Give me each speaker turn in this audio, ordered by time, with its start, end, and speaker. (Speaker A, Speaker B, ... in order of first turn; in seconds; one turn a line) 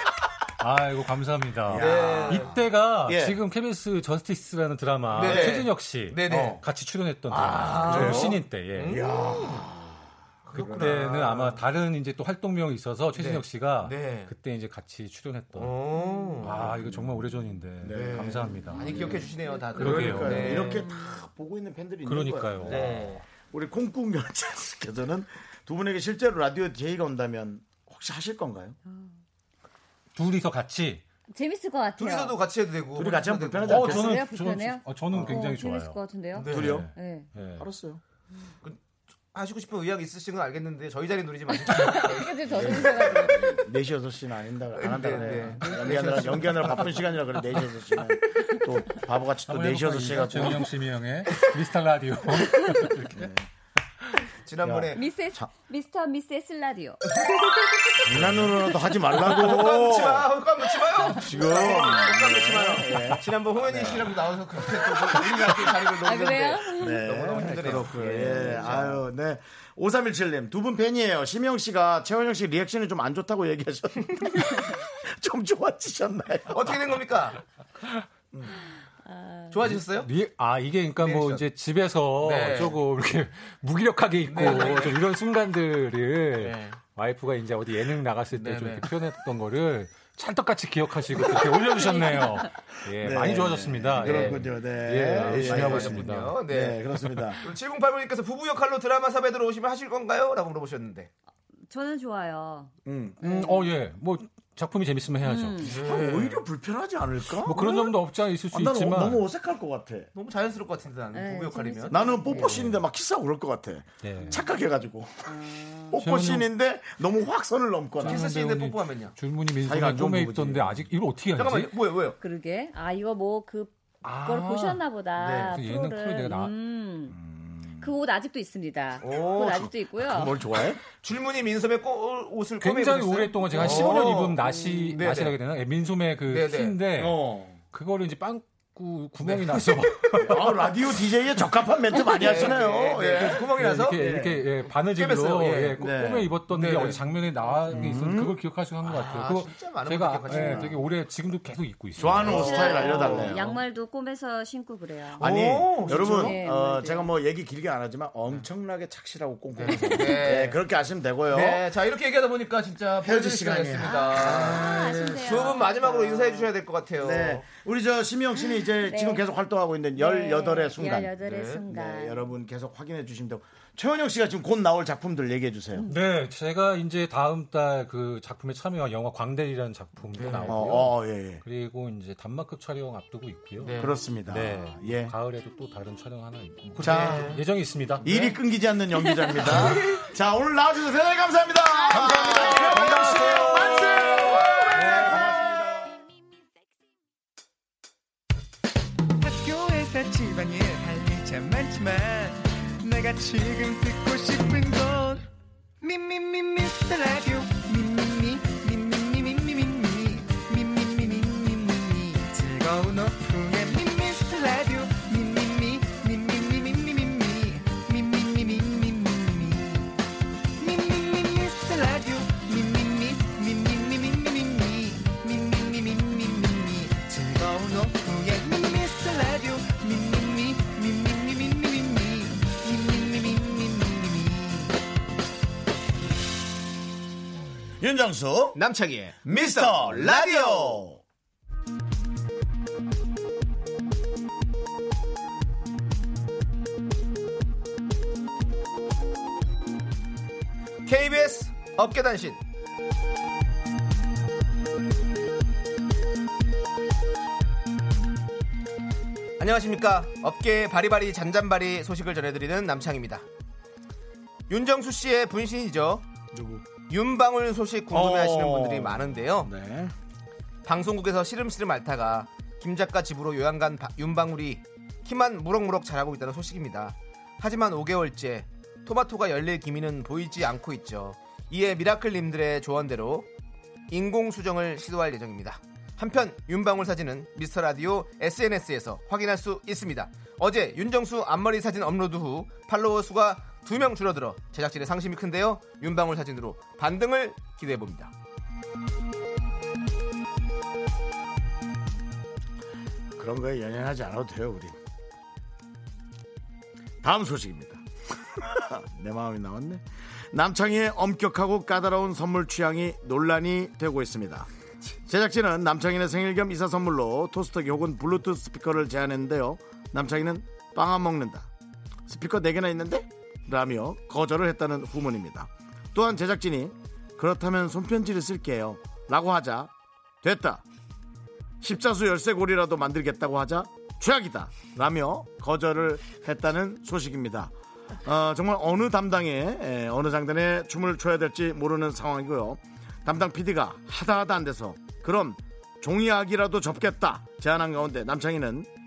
Speaker A: 0.6-9.0
Speaker B: 1.7-3.4
Speaker C: 1.7-2.5
Speaker C: 5.1-6.6
Speaker B: 5.2-5.7
Speaker B: 6.3-6.6
Speaker C: 7.3-9.7
Speaker B: 7.3-11.0
Speaker C: 10.4-11.6
Speaker A: 10.6-15.8
Speaker C: 13.2-14.3
Speaker C: 15.5-16.7
Speaker D: 16.0-16.4
Speaker A: 16.4-19.2
Speaker B: 16.5-28.8
Speaker C: 17.9-20.9
Speaker D: 18.9-19.8
Speaker A: 19.8-20.7
Speaker D: 20.8-21.1
Speaker A: 22.1-23.1
Speaker C: 22.6-23.2
Speaker D: 28.9-29.1
Speaker A: 30.1-31.0
Speaker D: 31.3-32.4
Speaker C: 32.0-34.0
Speaker B: 33.0-34.2
Speaker A: 33.6-37.7
Speaker D: 33.9-37.3
Speaker B: 35.1-35.4
Speaker C: 36.3-36.8
Speaker B: 36.5-36.9
Speaker B: 37.6-38.0
Speaker C: 39.3-43.5
Speaker D: 41.6-43.6
Speaker B: 42.5-50.7
Speaker C: 44.8-47.1
Speaker D: 45.2-45.7
Speaker A: 49.5-53.3
Speaker B: 53.1-53.5
Speaker C: 54.5-55.0
Speaker B: 54.6-55.5
Speaker D: 54.9-57.1
Speaker C: 57.2-57.5
Speaker B: 58.1-60.3
Speaker A: 58.1-58.5
Speaker C: 59.2-69.0
Speaker B: 61.1-64.2
Speaker D: 66.0-67.1
Speaker B: 66.7-77.0
Speaker C: 76.5-77.4
Speaker D: 79.0-79.5
Speaker C: 79.5-80.1
Speaker A: 79.7-96.4
Speaker C: 81.0-81.5
Speaker C: 82.2-82.8
Speaker C: 84.3-85.0
Speaker C: 86.4-86.8
Speaker C: 88.3-88.9
Speaker B: 92.9-97.5
Speaker C: 94.0-94.5
Speaker C: 95.2-96.8
Speaker A: 97.0-97.2
Speaker C: 97.4-101.1
Speaker D: 101.7-102.7
Speaker B: 102.8-103.6
Speaker A: 103.2-105.8
Speaker D: 105.2-105.7
Speaker C: 105.6-106.4
Speaker B: 105.7-108.0
Speaker A: 107.4-109.3
Speaker B: 108.5-110.1
Speaker C: 110.2-112.1
Speaker D: 111.1-112.6
Speaker B: 111.9-118.3
Speaker A: 112.3-112.8
Speaker A: 114.0-114.4
Speaker D: 115.3-116.0
Speaker A: 116.0-116.5
Speaker A: 118.0-121.7
Speaker C: 118.0-119.2
Speaker B: 119.6-120.9
Speaker C: 121.4-122.2
Speaker D: 122.2-127.2
Speaker A: 124.0-126.5
Speaker B: 125.2-125.5
Speaker B: 127.1-127.9
Speaker D: 127.8-130.4
Speaker C: 129.0-129.7
Speaker B: 129.6-130.8
Speaker C: 130.9-134.4
Speaker A: 132.6-137.2
Speaker B: 133.6-134.3
Speaker D: 134.4-135.0
Speaker C: 134.9-135.4
Speaker C: 136.3-136.8
Speaker B: 136.9-137.6
Speaker A: 137.7-140.5
Speaker C: 139.2-140.5
Speaker B: 140.2-144.5
Speaker C: 142.1-144.1
Speaker A: 143.2-152.9
Speaker C: 144.8-145.8
Speaker B: 145.8-146.3
Speaker C: 146.5-147.0
Speaker B: 147.7-148.4
Speaker C: 148.8-150.9
Speaker D: 150.3-150.7
Speaker B: 152.0-153.6
Speaker C: 152.2-153.5
Speaker D: 152.2-155.3
Speaker C: 155.2-156.4
Speaker B: 155.2-161.6
Speaker D: 155.9-157.1
Speaker C: 159.6-160.6
Speaker C: 161.3-167.5
Speaker B: 163.0-165.8
Speaker D: 163.8-166.4
Speaker B: 167.0-175.9
Speaker D: 168.7-169.2
Speaker D: 170.0-172.3
Speaker C: 171.2-171.6
Speaker A: 175.9-188.1
Speaker C: 180.1-180.6
Speaker B: 180.5-181.4
Speaker C: 183.6-183.9
Speaker B: 183.8-185.2
Speaker C: 186.8-187.4
Speaker B: 186.8-187.4
Speaker B: 188.0-196.0
Speaker C: 188.0-188.3
Speaker C: 189.6-190.0
Speaker C: 191.9-195.3
Speaker D: 192.0-192.8
Speaker D: 193.4-194.2
Speaker E: 199.2-205.3
Speaker E: 205.8-220.0
Speaker E: 220.6-234.8
Speaker B: 237.8-238.6
Speaker C: 238.6-240.8
Speaker B: 239.2-241.0
Speaker C: 250.9-252.4
Speaker C: 259.4-263.2
Speaker C: 264.5-266.1
Speaker B: 266.3-266.7
Speaker C: 266.9-269.5
Speaker B: 267.9-269.9
Speaker C: 270.6-283.3
Speaker C: 283.9-298.1
Speaker B: 303.1-304.8
Speaker B: 307.0-314.5
Speaker B: 315.1-321.5
Speaker B: 322.1-329.7
Speaker B: 330.2-330.6
Speaker B: 331.6-337.5
Speaker B: 338.0-348.7